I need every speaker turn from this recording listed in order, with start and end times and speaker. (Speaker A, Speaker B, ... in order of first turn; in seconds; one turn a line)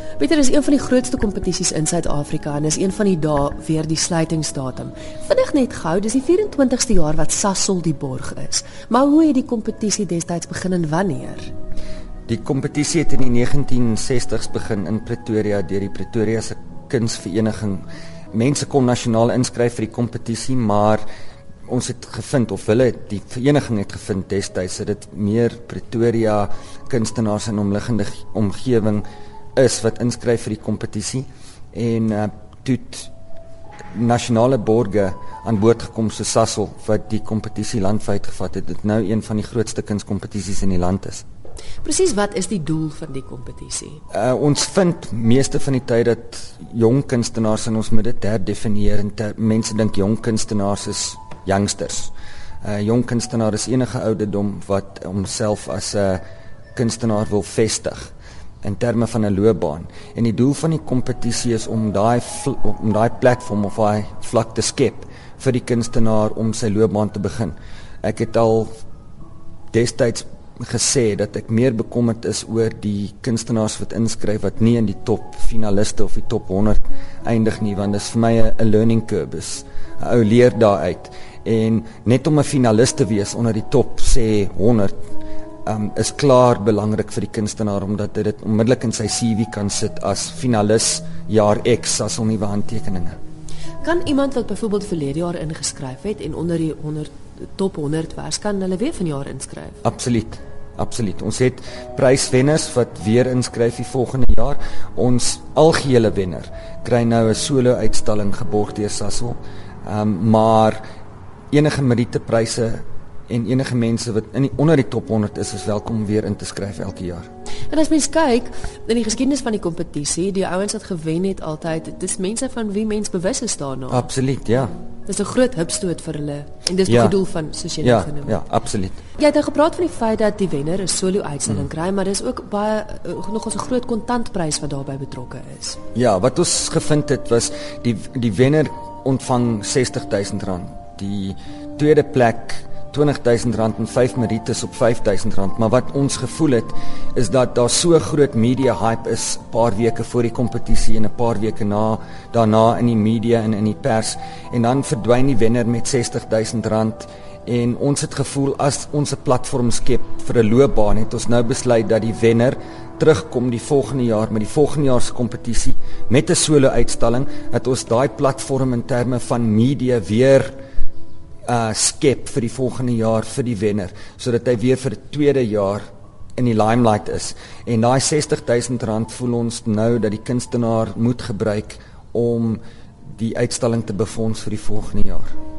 Speaker A: 0.2-11.5
Speaker B: 12.3-21.0
Speaker B: 21.7-29.0
Speaker B: 29.6-33.1
Speaker B: 33.9-41.2
Speaker A: 41.8-44.0
Speaker B: 44.1-52.1
Speaker B: 52.6-56.2
Speaker B: 56.8-58.1
Speaker B: 58.6-68.7
Speaker B: 69.7-84.9
Speaker B: 85.7-93.2
Speaker A: 93.8-99.8
Speaker B: 99.8-110.8
Speaker B: 111.5-117.3
Speaker A: 117.7-124.1
Speaker B: 123.9-124.7
Speaker A: 125.1-128.4
Speaker B: 126.9-127.2
Speaker B: 127.8-129.0
Speaker A: 129.2-135.8
Speaker B: 135.9-170.6
Speaker B: 171.5-175.8
Speaker B: 176.4-182.6
Speaker B: 183.2-185.3